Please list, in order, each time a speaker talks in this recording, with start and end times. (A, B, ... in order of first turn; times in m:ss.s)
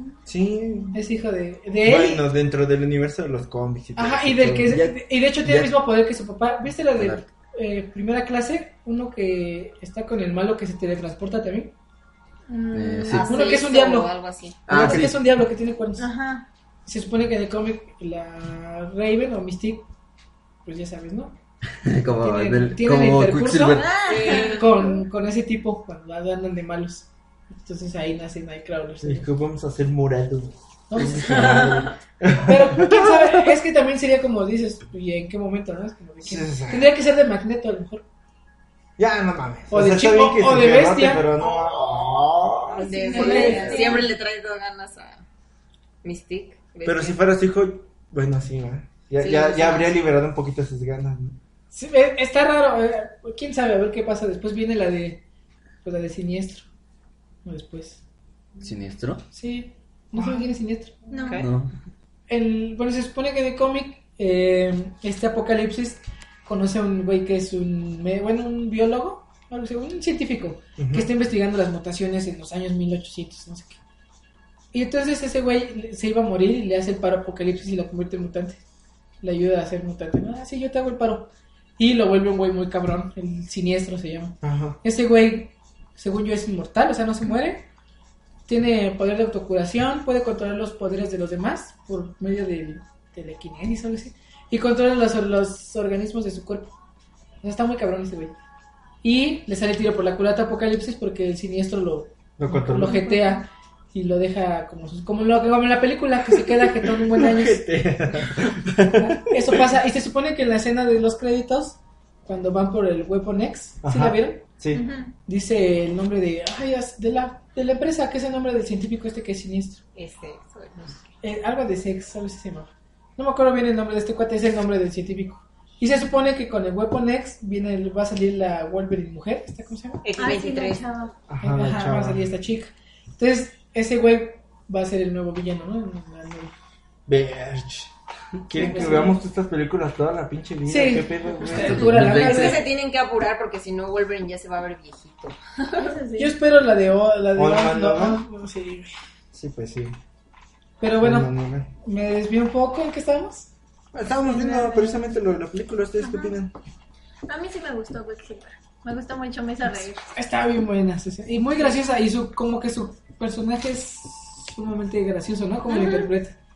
0:00.2-0:01.0 A
0:00.9-0:02.2 B
0:01.8-0:04.7 A
0:04.0-0:11.7 B
0:04.5-0:05.7 C
0:07.0-0:07.2 C
0:12.5-0:13.6 D
0:12.7-0:13.3 C
0:13.1-0:14.7 E
0:13.1-0:16.1 B
0:14.7-0:15.2 C
0:16.0-0:16.4 D
0:16.8-0:19.8 B
0:20.6-0:21.4 B
0:21.8-0:24.0 C
0:22.2-0:29.2 B
0:23.8-0:24.6 D
0:24.0-0:24.8 E
0:29.0-0:33.4 A
0:30.9-0:31.6 B
0:31.0-0:31.9 E
0:32.4-0:38.0 B
0:36.2-0:36.9 A
0:39.0-0:42.9 A
0:39.7-0:41.3 B
0:41.4-0:45.2 E
0:42.8-0:44.1 D
0:43.1-0:44.0 B
0:46.0-0:47.2 E
0:46.8-0:51.4 A
0:49.2-0:50.0 E
0:51.7-0:55.2 B
0:55.8-0:56.6 B
0:57.4-0:58.0 B
0:58.6-0:59.2 C
0:59.3-1:01.4 B
1:01.1-1:01.5 D
1:01.4-1:01.7 C
1:02.3-1:13.8 B
1:10.8-1:11.1 A
1:14.7-1:18.6 B
1:19.2-1:27.7 B
1:24.4-1:24.8 A
1:28.5-1:36.7 B
1:37.4-1:38.3 B
1:39.0-1:47.6 B
1:42.4-1:43.1 A
1:42.9-1:43.4 D
1:46.3-1:49.6 A
1:48.9-1:54.4 B
1:53.8-1:54.8 A
1:54.7-1:55.1 D
1:55.3-1:59.8 B
2:00.0-2:01.0 E
2:01.2-2:10.0 B
2:10.0-2:10.8 E
2:10.2-2:11.1 D
2:11.3-2:12.2 A
2:11.4-2:16.5 B
2:17.1-2:17.9 A
2:18.4-2:22.1 A
2:18.5-2:19.2 B
2:20.7-2:22.7 B
2:21.5-2:22.6 C
2:22.1-2:25.9 E
2:25.8-2:26.3 D
2:26.2-2:28.9 B
2:27.3-2:28.2 A
2:29.3-2:30.0 A
2:30.8-2:33.5 B
2:31.0-2:31.7 A
2:33.9-2:36.5 A
2:34.2-2:35.0 D
2:36.0-2:36.4 D
2:37.3-2:40.1 D
2:40.1-2:46.3 B
2:45.7-2:46.1 D